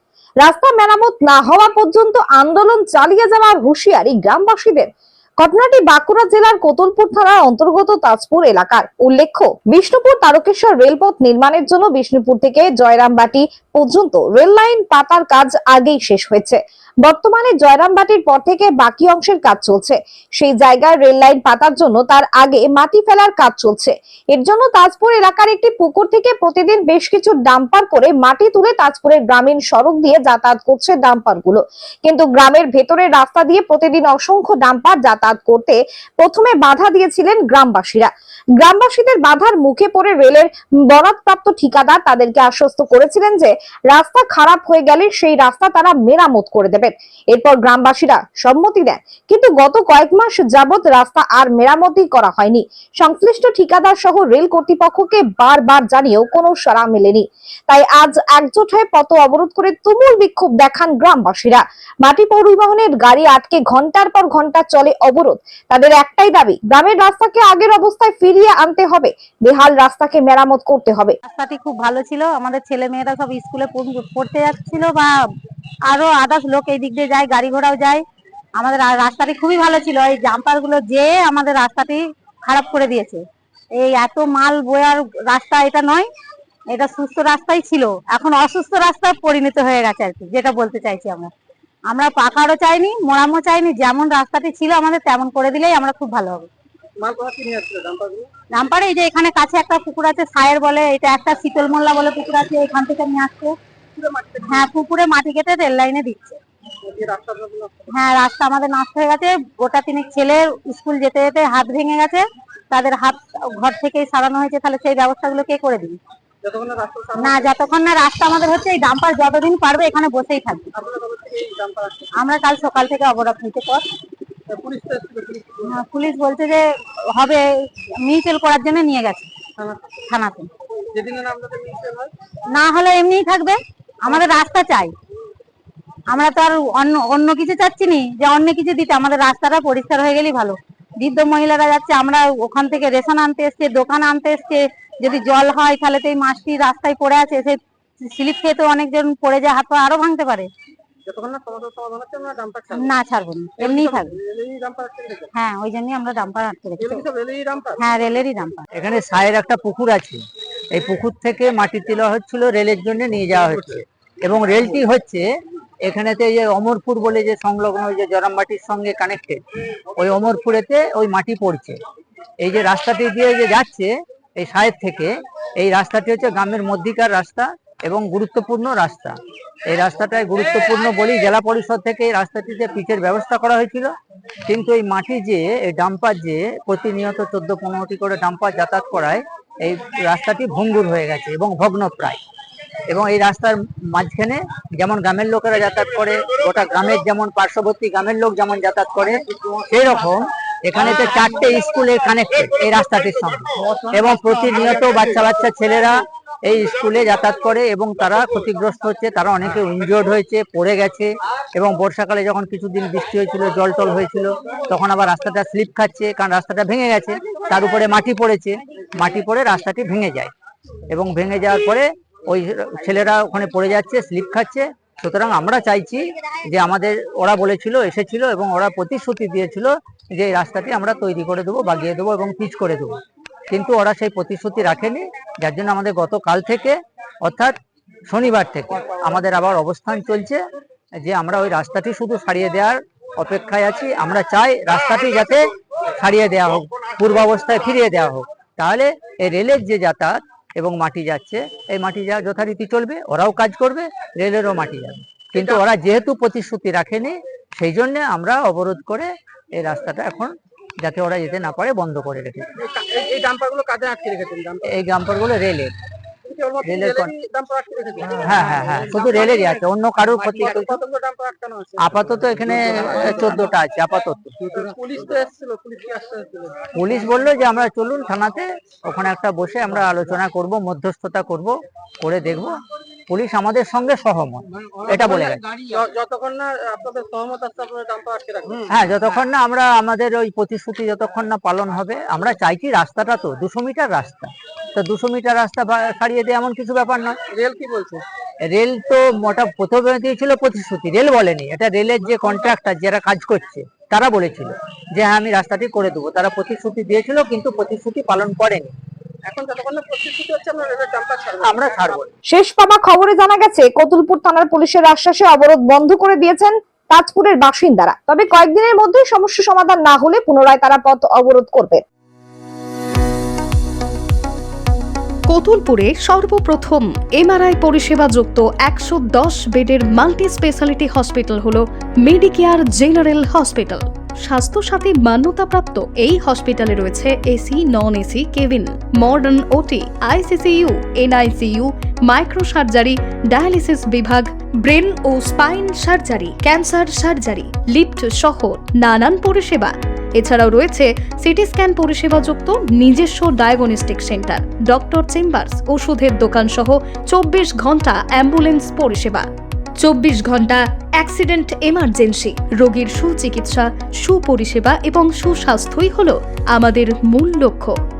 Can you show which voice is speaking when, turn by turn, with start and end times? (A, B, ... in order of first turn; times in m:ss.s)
0:00.4-0:04.9 A
0:05.4-1:11.2 A
1:11.2-1:15.1 B
1:15.9-1:18.0 B
1:18.6-1:23.2 B
1:23.8-1:26.1 B
1:26.7-1:31.3 B
1:31.9-1:36.5 B
1:37.0-1:38.3 C
1:38.5-1:43.5 B
1:43.9-1:44.7 C
1:44.4-1:46.4 B
1:46.8-1:48.0 C
1:47.9-1:56.0 B
1:56.4-1:57.6 C
1:57.2-2:00.7 B
2:00.7-2:02.3 C
2:02.2-2:03.8 B
2:04.5-2:05.8 C
2:05.7-2:06.6 B
2:07.1-2:07.4 B
2:08.0-2:09.3 B
2:09.6-2:09.9 C
2:10.1-2:10.5 B
2:10.9-2:12.1 C
2:12.5-2:14.9 B
2:16.1-2:30.5 B
2:31.0-2:33.0 C
2:32.7-2:34.2 B
2:33.6-2:35.3 C
2:35.3-2:37.0 B
2:36.8-2:37.8 C
2:37.8-2:38.6 B
2:38.7-2:45.2 D
2:45.8-2:49.4 D
2:50.0-2:51.8 D
2:52.4-2:59.2 D
2:59.7-3:03.9 D
3:04.5-3:12.2 D
3:12.9-3:40.3 D
3:40.9-3:52.9 D
3:53.5-3:57.5 D
3:58.1-4:00.4 D
4:01.0-4:05.4 D
4:06.0-4:22.5 D
4:22.6-4:24.8 C
4:24.7-4:25.7 D
4:26.2-4:33.2 C
4:26.6-4:27.1 D
4:28.2-4:30.8 D
4:31.8-4:34.4 D
4:34.5-4:36.8 C
4:36.8-4:42.6 D
4:43.1-4:45.4 D
4:45.0-4:48.7 C
4:48.7-4:57.2 D
4:57.3-4:58.0 C
4:58.4-5:08.7 D
5:09.2-5:12.0 C
5:11.4-5:12.1 D
5:12.3-5:21.8 A
5:25.3-6:07.8 E